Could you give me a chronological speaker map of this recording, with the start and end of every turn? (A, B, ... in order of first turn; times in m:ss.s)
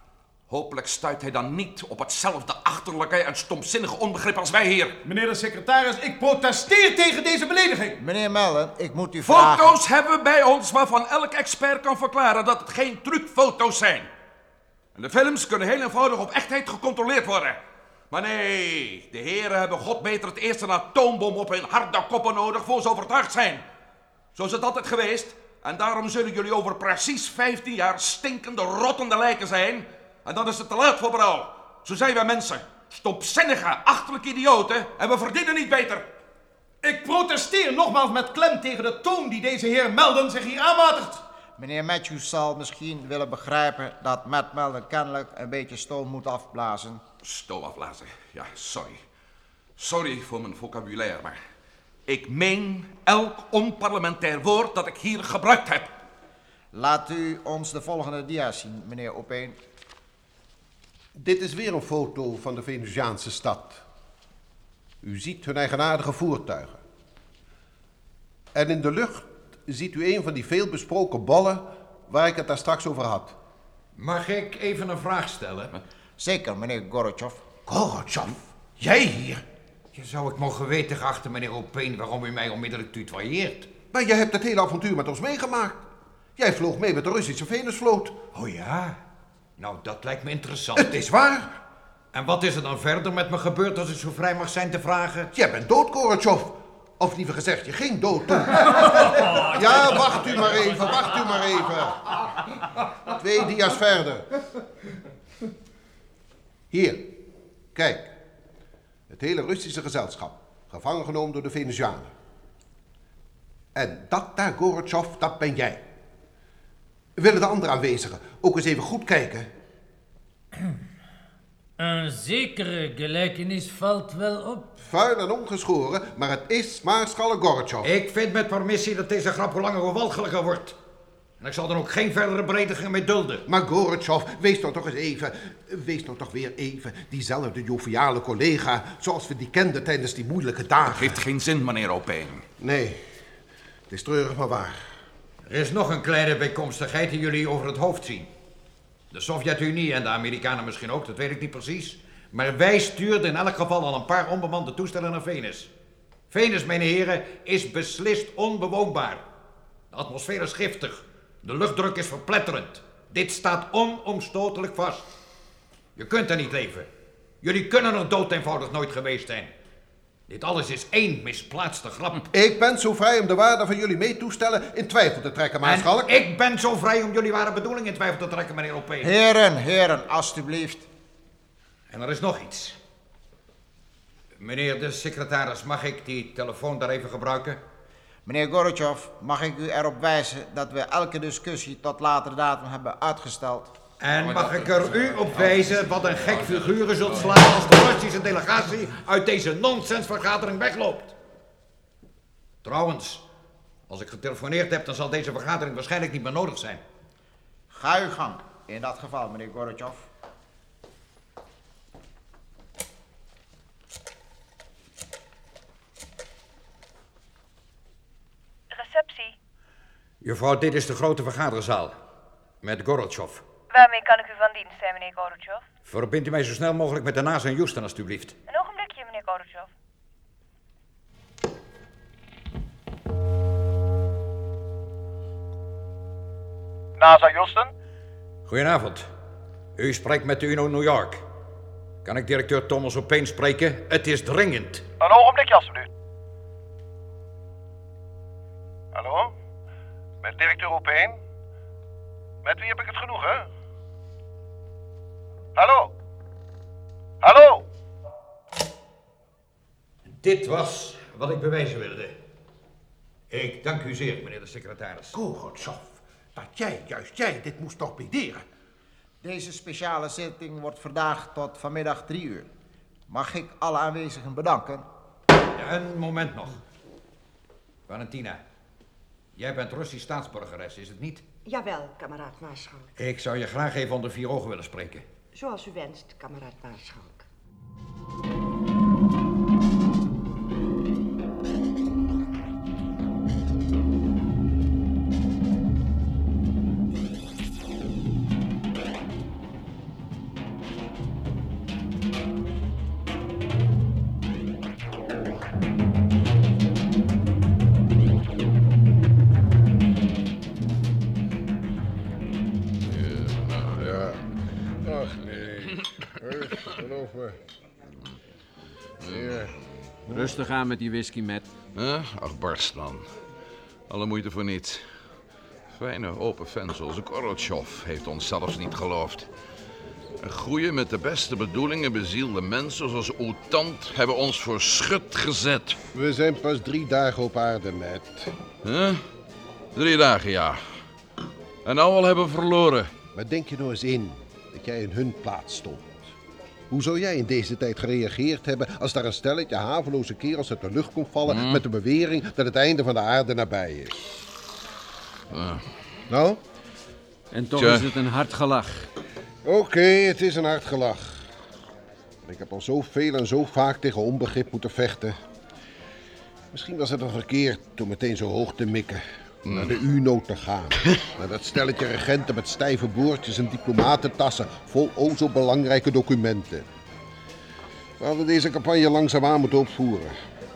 0:00.5-0:05.0 A
0:05.0-0:08.0 B
0:08.0-0:09.8 C
0:09.2-0:14.1 A
0:14.9-0:17.6 A
0:18.1-0:23.6 A
0:24.3-0:36.1 A
0:36.8-0:41.2 B
0:41.6-0:47.0 C
0:47.2-0:49.0 A
0:49.8-0:51.4 A
0:52.1-0:55.9 A
0:56.7-0:59.6 C
1:01.1-1:03.8 D
1:05.0-1:06.8 D
1:08.5-1:13.4 D
1:13.9-1:15.7 E
1:16.2-1:17.4 C
1:17.7-1:19.4 D
1:19.9-1:23.7 E
1:23.9-1:25.8 D
1:26.4-1:28.2 D
1:28.3-1:29.0 E
1:29.6-1:31.0 E
1:30.7-1:31.5 D
1:32.1-1:35.3 E
1:35.3-1:42.2 D
1:43.0-1:44.2 D
1:46.7-1:47.2 D
1:47.7-1:48.2 D
1:49.1-1:52.1 D
1:53.7-1:55.8 D
1:57.2-1:59.5 D
2:01.8-2:04.7 F
2:04.8-2:07.9 D
2:07.8-2:10.8 E
2:11.4-2:13.4 E
2:13.4-2:21.2 D
2:20.8-2:22.4 A
2:22.6-2:23.0 D
2:23.9-2:24.9 D
2:25.4-2:28.3 E
2:29.1-2:35.7 E
2:36.3-2:39.2 E
2:39.9-2:45.1 E
2:46.0-2:46.9 E
2:47.4-2:49.5 E
2:50.3-2:52.2 E
2:52.3-2:56.2 D
2:55.6-2:59.1 E
2:59.0-3:00.9 C
3:01.9-3:02.8 E
3:04.4-3:07.6 E
3:08.2-3:13.7 C
3:14.0-3:21.1 E
3:22.6-3:23.2 E
3:23.9-3:26.8 E
3:27.7-3:30.1 C
3:38.7-3:39.3 G
3:40.2-3:42.0 E
3:42.6-3:43.5 E
3:43.7-3:45.6 G
3:45.8-3:48.4 E
3:48.5-3:49.7 G
3:57.0-3:57.7 H
3:58.4-3:59.1 E
3:59.8-4:01.2 E
4:02.0-4:04.9 E
4:05.0-4:05.9 H
4:08.9-4:09.3 H
4:10.2-4:11.2 H
4:12.4-4:13.5 H
4:15.6-4:15.9 H
4:17.2-4:17.6 H
4:20.1-4:22.2 E
4:23.3-4:25.2 E
4:25.1-4:28.4 D
4:29.2-4:32.5 C
4:33.1-4:34.8 C
4:35.5-4:36.6 E
4:37.9-4:38.4 E
4:39.4-4:41.2 E
4:41.4-4:42.9 I
4:43.0-4:45.1 E
4:45.3-4:47.2 I
5:12.8-5:14.1 A
5:13.8-5:14.2 D
5:14.8-5:17.4 D
5:15.2-5:16.0 A
5:19.0-5:19.5 A
5:19.0-5:19.5 D
5:20.1-5:20.4 D
5:20.1-5:21.5 J
5:21.7-5:23.1 A
5:23.9-5:24.9 A
5:25.7-5:29.3 A
5:30.2-5:35.8 A
5:35.9-5:38.4 D
5:38.6-5:39.0 A
5:39.7-5:40.6 A
5:41.6-5:42.9 A
5:43.1-5:46.1 D
5:46.7-5:54.3 D
5:51.2-5:51.6 A
5:55.3-5:55.6 A
5:56.1-5:56.4 D
5:57.3-5:58.9 J
5:57.5-5:58.0 A
5:59.4-6:01.3 D
6:02.2-6:05.2 D
6:06.5-6:16.7 D
6:09.4-6:09.8 A
6:18.0-6:20.2 D